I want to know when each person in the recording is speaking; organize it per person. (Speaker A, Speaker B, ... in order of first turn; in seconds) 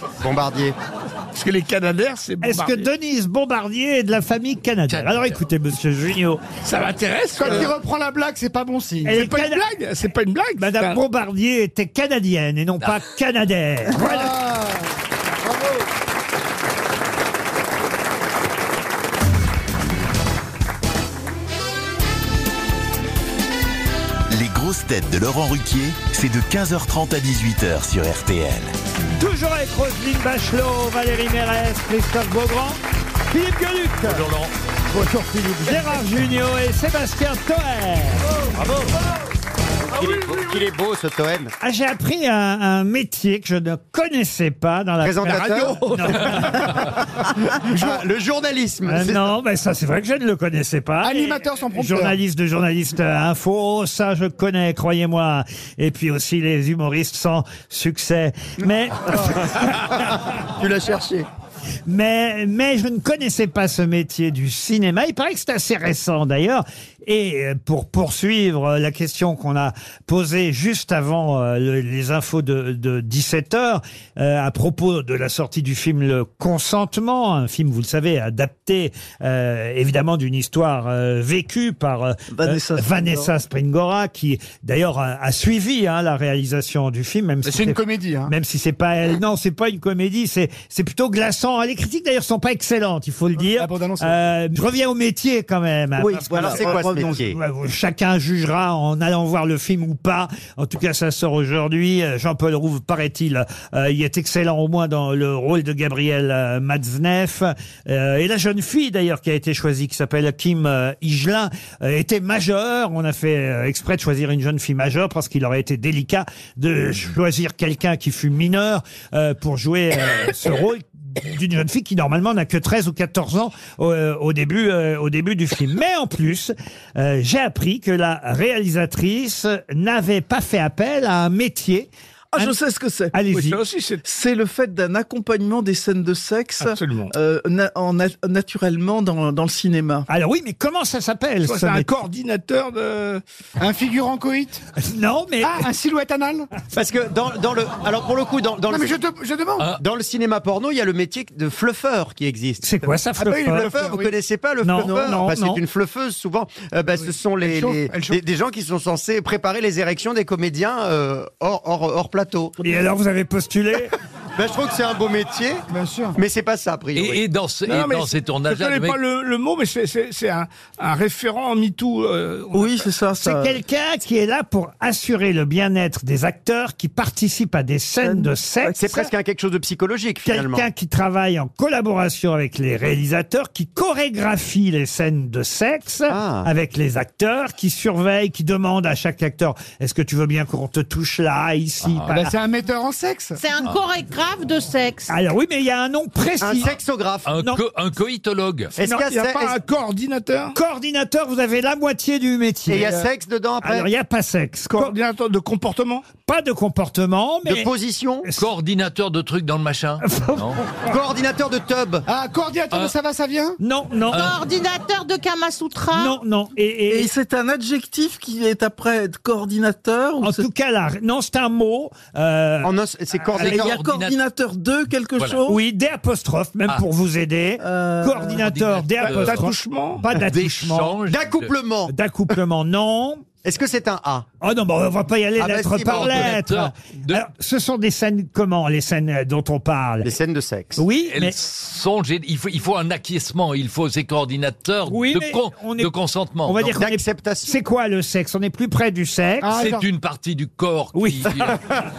Speaker A: 0.2-0.8, 39.9-41.5, 45.0-46.9, 47.6-49.3, 59.2-61.3, 96.3-97.4, 146.7-149.0, 149.8-162.5, 164.3-165.6, 166.1-167.2, 178.7-180.7, 186.1-186.5, 196.4-197.3, 198.8-199.6, 202.7-203.9, 207.4-208.3, 210.9-212.1, 222.6-223.8, 231.1-231.9, 233.4-234.3, 235.4-236.3, 240.0-240.8, 246.6-247.5
Speaker B: 1.3-2.9, 6.6-7.7, 9.1-11.0, 133.3-134.0, 136.6-137.1, 141.4-143.2, 167.7-172.9, 198.8-200.6, 204.7-206.1, 229.0-230.0
Speaker C: 2.4-6.4, 9.1-9.6, 10.6-14.3, 29.2-34.2, 34.9-38.2, 41.6-46.8, 48.9-59.9, 61.9-132.5, 133.1-133.6, 140.1-142.0, 144.8-145.7, 152.6-153.8, 154.6-155.6, 162.6-163.9, 173.2-179.1, 180.2-192.3, 195.1-196.7, 200.5-203.0, 203.6-204.9, 206.2-207.7, 210.0-210.6, 213.6-214.3, 215.9-217.1, 220.2-222.7, 225.5-230.9, 231.9-233.2, 234.4-240.1, 240.8-241.3, 244.9-245.9, 246.4-249.6, 250.9-251.5
Speaker D: 4.9-5.3, 34.0-34.5, 38.5-38.9, 166.9-169.0, 191.8-192.1, 197.2-198.7, 208.4-210.6, 223.4-224.2, 228.3-229.5, 230.0-231.5, 235.8-237.2, 241.0-246.6, 249.5-251.6
Speaker E: 7.4-9.2, 13.9-14.9, 15.4-15.8, 51.0-52.2, 87.4-88.3, 93.4-94.2, 143.6-144.6, 145.4-146.5, 148.7-149.7, 153.2-154.1, 157.0-158.2, 165.7-166.2, 192.1-193.4, 212.1-213.6, 249.4-249.8
Speaker F: 24.3-28.7
Speaker G: 82.3-83.3, 96.0-97.2, 132.3-133.2, 134.0-140.1, 172.5-173.6, 178.0-178.3, 216.9-220.4, 223.3-225.6, 227.6-228.5
Speaker H: 193.4-195.1, 214.1-216.2